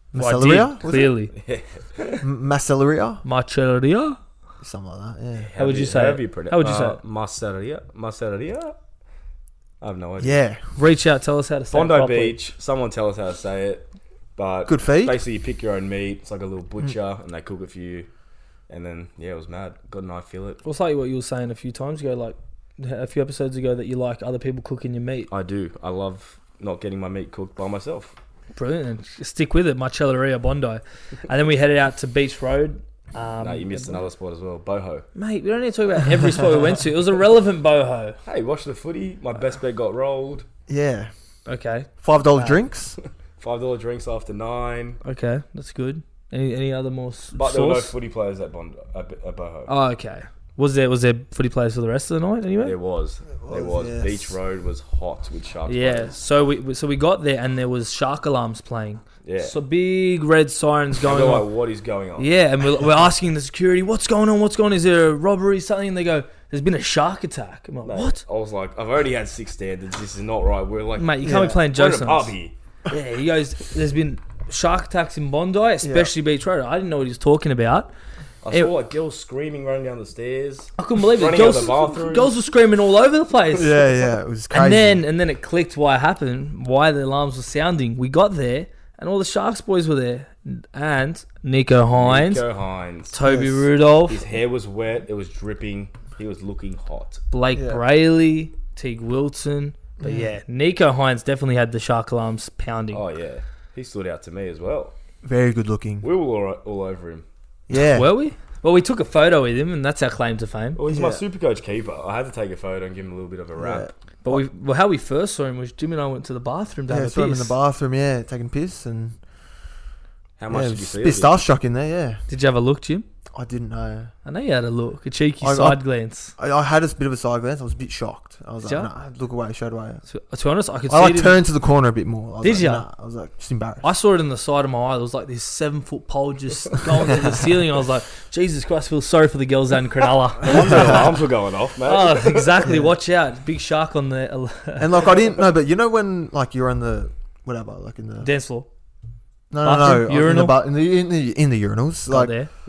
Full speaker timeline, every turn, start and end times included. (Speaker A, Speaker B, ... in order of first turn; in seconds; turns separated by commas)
Speaker A: 0.1-1.2, Speaker B: 0.1-1.3, Speaker C: 1.3-2.2, Speaker A: 2.2-3.2, Speaker B: 3.2-4.2, Speaker A: 4.6-5.5, Speaker C: 5.4-8.8, Speaker B: 5.6-7.0, Speaker C: 9.8-10.4, Speaker A: 10.2-10.8, Speaker B: 10.8-12.4, Speaker C: 11.7-18.1, Speaker A: 14.7-15.2, Speaker C: 18.7-20.6, Speaker B: 20.6-25.3, Speaker C: 25.3-28.1, Speaker B: 28.6-34.0, Speaker C: 33.4-35.1, Speaker B: 35.1-38.2, Speaker C: 38.2-40.5, Speaker A: 40.7-41.1, Speaker B: 41.5-42.6, Speaker A: 42.0-43.0, Speaker C: 43.4-45.0, Speaker B: 45.0-47.9, Speaker C: 47.4-49.7, Speaker B: 49.7-52.7, Speaker C: 52.6-56.1, Speaker A: 53.4-54.4, Speaker B: 55.7-61.5, Speaker C: 59.2-59.6, Speaker C: 61.0-62.3, Speaker B: 62.2-68.2, Speaker C: 67.8-72.5, Speaker B: 71.0-72.3, Speaker A: 71.2-71.6, Speaker B: 72.9-77.9, Speaker A: 75.8-76.1, Speaker C: 78.4-82.3, Speaker B: 80.8-83.8, Speaker A: 83.5-85.0, Speaker B: 84.5-92.5, Speaker C: 91.9-93.2, Speaker B: 93.1-94.2, Speaker A: 93.2-93.7, Speaker C: 94.1-97.2, Speaker B: 97.3-103.0, Speaker A: 97.5-97.8, Speaker A: 100.0-100.3, Speaker C: 102.9-104.9, Speaker A: 105.2-106.1, Speaker C: 106.0-107.2, Speaker A: 107.7-108.1, Speaker B: 107.8-110.8, Speaker C: 110.8-113.9, Speaker A: 110.9-111.2, Speaker A: 113.5-114.4, Speaker B: 114.2-117.5, Speaker A: 116.9-119.2, Speaker C: 120.4-121.3, Speaker A: 120.5-122.2, Speaker B: 122.3-123.0, Speaker A: 123.3-124.1, Speaker B: 124.2-126.3, Speaker A: 125.4-125.8, Speaker A: 126.4-130.0, Speaker B: 128.6-128.9, Speaker B: 130.1-131.4, Speaker A: 130.9-133.8, Speaker B: 132.4-132.8, Speaker B: 133.8-141.1, Speaker C: 140.4-142.7, Speaker B: 141.8-145.1, Speaker A: 142.6-142.9, Speaker A: 144.8-148.3, Speaker B: 148.2-148.7, Speaker A: 149.5-152.3, Speaker B: 149.6-150.6, Speaker B: 152.1-152.5